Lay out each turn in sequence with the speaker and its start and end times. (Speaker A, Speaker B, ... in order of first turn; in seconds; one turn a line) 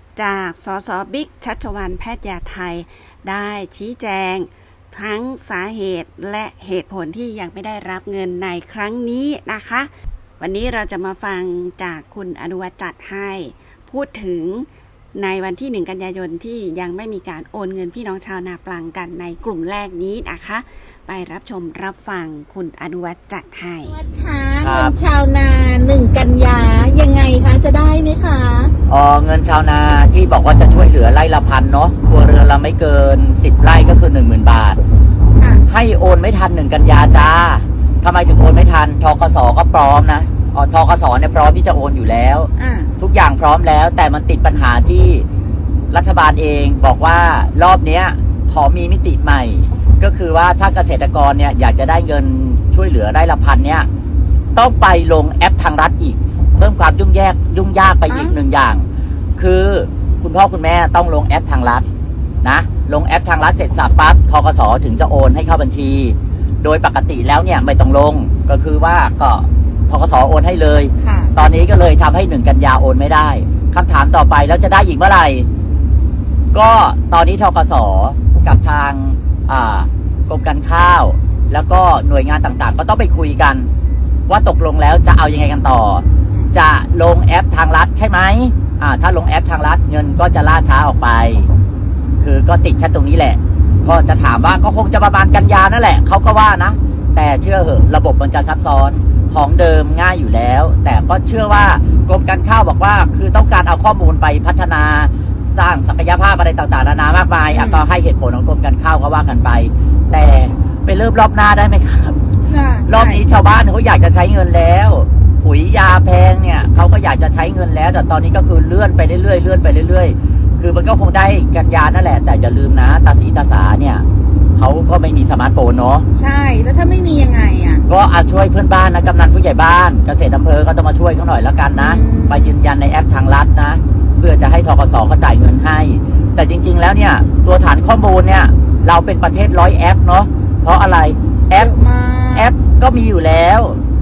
Speaker A: 0.2-24.0
Speaker B: 23.9-28.7
Speaker C: 24.6-24.9
Speaker C: 28.9-34.8
Speaker B: 35.4-35.6
Speaker C: 35.7-45.2
Speaker B: 42.6-42.9
Speaker C: 45.9-53.9
Speaker C: 54.5-58.9
Speaker B: 58.1-58.4
Speaker C: 59.4-61.9
Speaker C: 62.4-75.5
Speaker B: 71.0-71.3
Speaker C: 76.5-83.7
Speaker C: 84.3-91.5
Speaker C: 92.2-112.2
Speaker B: 107.5-107.8
Speaker B: 112.5-113.2
Speaker C: 112.9-124.0
Speaker C: 124.6-126.1
Speaker B: 126.1-127.8
Speaker C: 127.9-141.7
Speaker B: 131.7-132.6
Speaker B: 141.5-142.5
Speaker C: 142.3-143.8